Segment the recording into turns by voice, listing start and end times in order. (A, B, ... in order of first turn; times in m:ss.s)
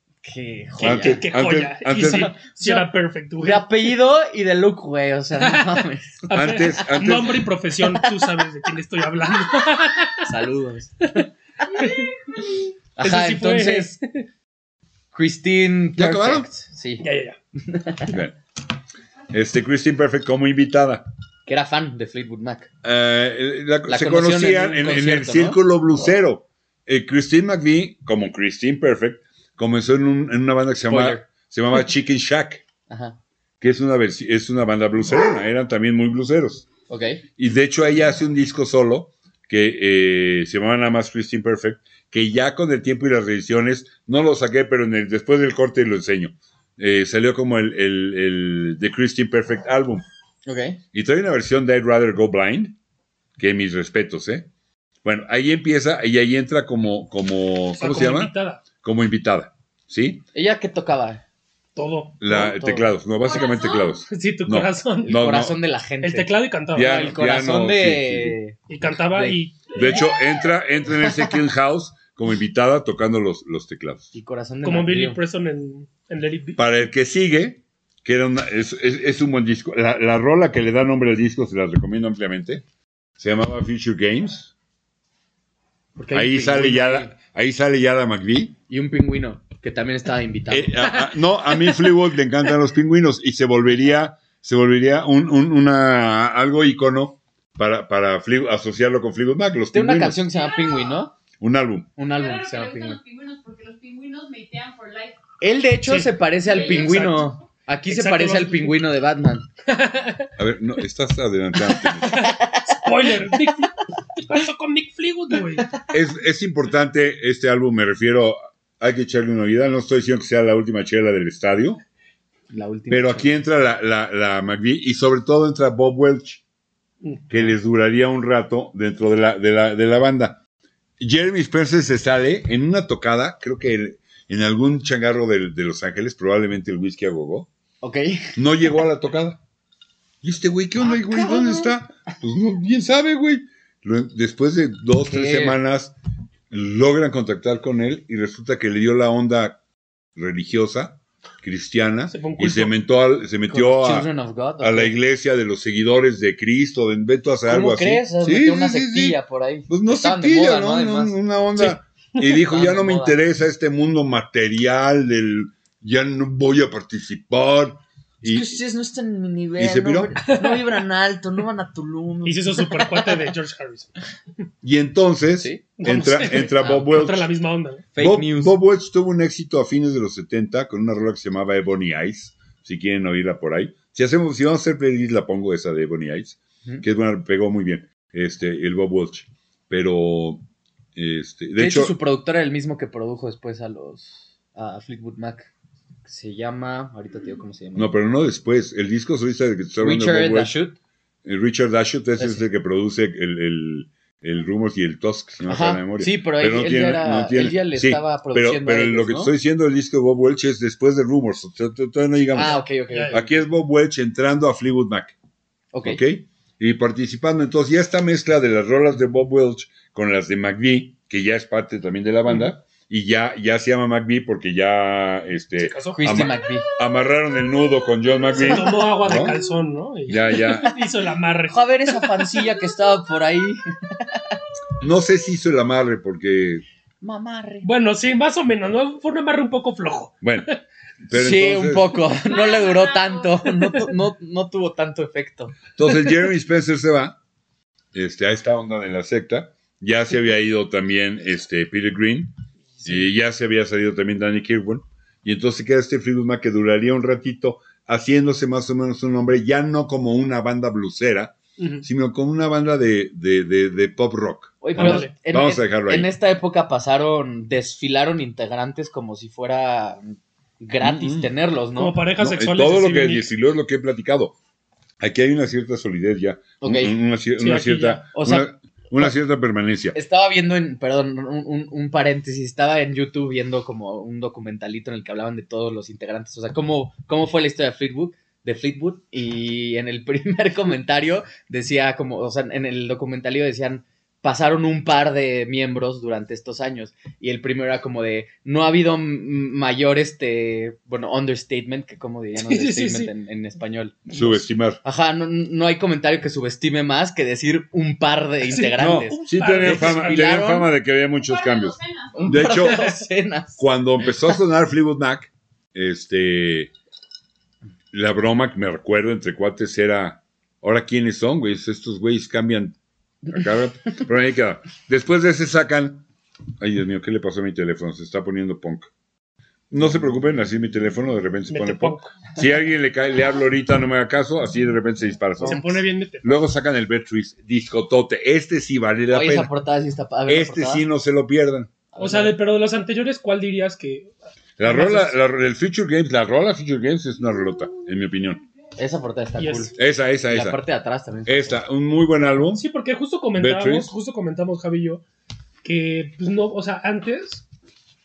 0:00.2-0:01.2 A
0:00.8-0:02.3 B
0:00.8-0:03.8 C
0:02.0-0:02.9 A
0:03.4-0:06.3 A
0:05.4-0:10.3 C
0:06.3-0:07.5 B
0:07.9-0:08.3 A
0:10.2-0:11.2 A
0:11.0-0:14.2 C
0:13.0-0:13.9 A
0:15.1-0:17.0 A
0:16.0-0:16.5 B
0:17.0-0:17.4 C
0:17.6-0:18.1 A
0:18.1-0:18.4 B
0:19.3-0:21.0 B
0:21.5-0:22.7 A
0:22.8-0:32.6 B
0:23.9-0:25.6 A
0:30.9-0:31.2 A
0:32.9-0:33.2 A
0:33.6-0:36.7 B
0:36.9-0:37.2 A
0:37.4-0:50.0 B
0:50.5-0:50.8 A
0:50.9-0:52.8 B
0:53.4-0:54.5 B
0:55.0-1:00.2 B
0:57.8-0:58.6 C
1:00.3-1:01.2 A
1:01.8-1:02.2 C
1:02.2-1:05.6 B
1:02.2-1:02.9 A
1:03.2-1:04.0 D
1:04.1-1:05.2 C
1:05.0-1:09.4 A
1:06.0-1:07.1 C
1:06.7-1:08.4 B
1:08.7-1:10.0 C
1:09.7-1:14.1 B
1:14.1-1:15.2 A
1:14.6-1:16.6 C
1:16.6-1:22.6 B
1:23.2-1:24.5 B
1:26.0-1:26.6 C
1:26.0-1:27.1 A
1:26.1-1:28.6 B
1:28.7-1:30.8 A
1:30.5-1:40.2 B
1:31.5-1:31.9 C
1:39.7-1:41.2 A
1:40.3-1:41.0 D
1:41.4-1:41.9 B
1:42.0-1:43.0 A
1:42.1-1:45.2 D
1:45.4-1:49.5 A
1:45.9-1:47.3 C
1:46.4-1:47.2 D
1:47.9-1:48.8 C
1:49.7-1:50.3 C
1:50.4-1:52.3 B
1:52.0-1:53.4 A
1:52.1-1:55.7 C
1:55.9-2:01.8 B
2:02.5-2:03.4 A
2:02.9-2:06.4 B
2:07.0-2:07.3 C
2:07.3-2:10.4 B
2:11.0-2:17.5 B
2:17.8-2:18.4 A
2:18.4-2:19.4 B
2:20.2-2:26.0 B
2:20.8-2:21.7 A
2:25.0-2:25.6 A
2:26.5-2:29.6 B
2:30.2-2:34.1 B
2:32.1-2:32.7 C
2:33.5-2:35.0 A
2:34.6-2:48.6 B
2:37.5-2:41.2 A
2:42.2-2:43.2 A
2:48.2-2:53.2 A
2:49.6-2:50.2 B
2:50.3-2:50.8 C
2:52.2-2:53.9 C
2:54.6-2:57.3 B
2:55.4-2:55.7 A
2:55.8-2:57.9 C
2:56.4-2:56.9 A
2:57.9-2:58.6 A
2:58.0-3:10.4 B
3:11.0-3:12.0 B
3:11.6-3:15.5 A
3:16.0-3:18.0 A
3:17.8-3:20.5 B
3:19.8-3:20.8 A
3:21.2-3:35.2 B
3:22.2-3:22.4 A
3:25.5-3:29.3 A
3:32.3-3:33.4 A
3:32.9-3:33.2 C
3:35.7-3:36.0 A
3:35.8-3:49.4 B
3:45.6-3:46.4 C
3:45.9-3:46.6 A
3:48.4-3:52.5 C
3:50.1-3:50.8 B
3:51.5-3:54.4 A
3:54.8-3:56.6 B
3:57.0-3:57.7 A
3:57.6-4:00.6 C
4:00.2-4:00.5 B
4:01.0-4:02.1 B
4:01.1-4:05.7 A
4:02.2-4:03.5 D
4:05.8-4:07.2 B
4:07.9-4:26.1 B
4:12.8-4:13.1 C
4:21.6-4:21.8 C
4:24.6-4:32.0 A
4:24.8-4:25.1 C
4:30.8-4:31.3 B
4:31.8-4:33.3 C
4:32.2-4:34.4 B
4:35.0-4:40.0 B
4:36.6-4:37.0 A
4:37.4-4:38.0 C
4:38.1-4:39.1 A
4:39.9-5:10.7 A
5:02.4-5:03.1 C
5:04.1-5:04.8 B
5:08.5-5:10.3 C
5:08.8-5:13.0 B
5:11.2-5:12.5 D
5:12.2-5:13.6 A
5:13.6-5:16.7 B
5:17.9-5:22.8 B
5:23.3-5:26.1 B
5:26.6-5:28.9 B
5:29.7-5:39.5 B
5:31.5-5:32.2 C
5:35.4-5:36.4 C
5:39.1-5:40.8 A
5:40.3-5:41.7 B
5:41.9-5:42.4 A
5:42.0-5:45.2 C
5:44.6-5:48.4 B
5:48.8-5:49.8 A
5:49.4-5:49.7 C
5:49.8-5:50.6 B
5:50.3-5:51.6 A
5:51.3-5:52.6 B
5:52.6-5:55.0 C
5:53.4-5:53.9 B
5:55.6-5:57.4 C